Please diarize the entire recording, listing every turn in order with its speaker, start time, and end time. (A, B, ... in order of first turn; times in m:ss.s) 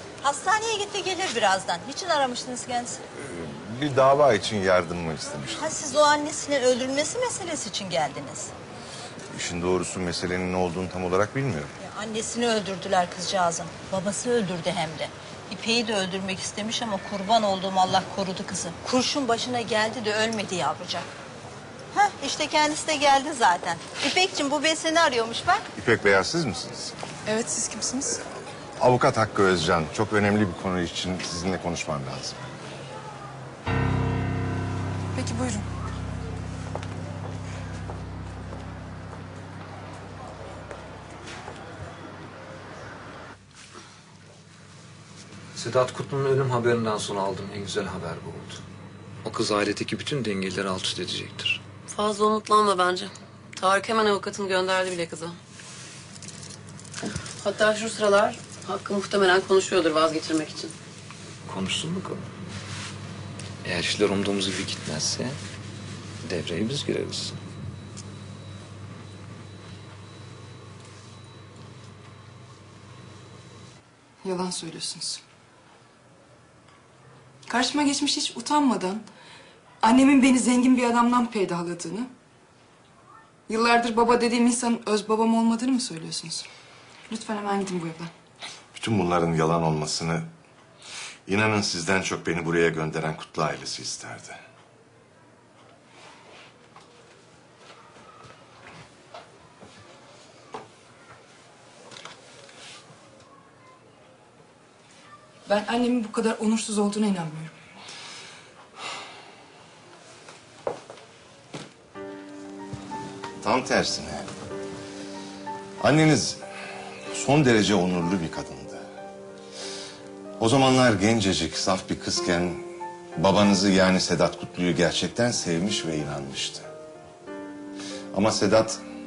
0:00.2-0:03.0 A
0:03.2-0:05.7 B
0:05.6-0:08.5 A
0:09.3-0:11.7 B
0:11.8-0:21.1 A
0:21.9-0:25.7 A
0:25.7-0:26.9 B
0:27.3-0:28.3 C
0:28.8-0:32.6 B
0:35.2-0:35.6 C
0:45.6-0:48.6 D
0:49.2-0:51.6 D
0:51.9-0:55.4 E
0:57.4-1:00.7 E
1:01.5-1:02.3 D
1:03.6-1:05.4 D
1:06.2-1:07.4 D
1:14.2-1:15.2 C
1:17.5-1:19.0 C
1:19.8-1:22.1 C
1:23.5-1:26.5 C
1:27.1-1:28.1 C
1:28.8-1:30.3 B
1:31.3-1:34.4 B
1:45.5-1:47.5 C
1:53.4-1:54.3 B
1:55.8-1:56.4 B
1:57.1-1:58.8 B
2:00.4-2:02.6 B
2:03.2-2:06.7 B
2:08.1-2:08.8 B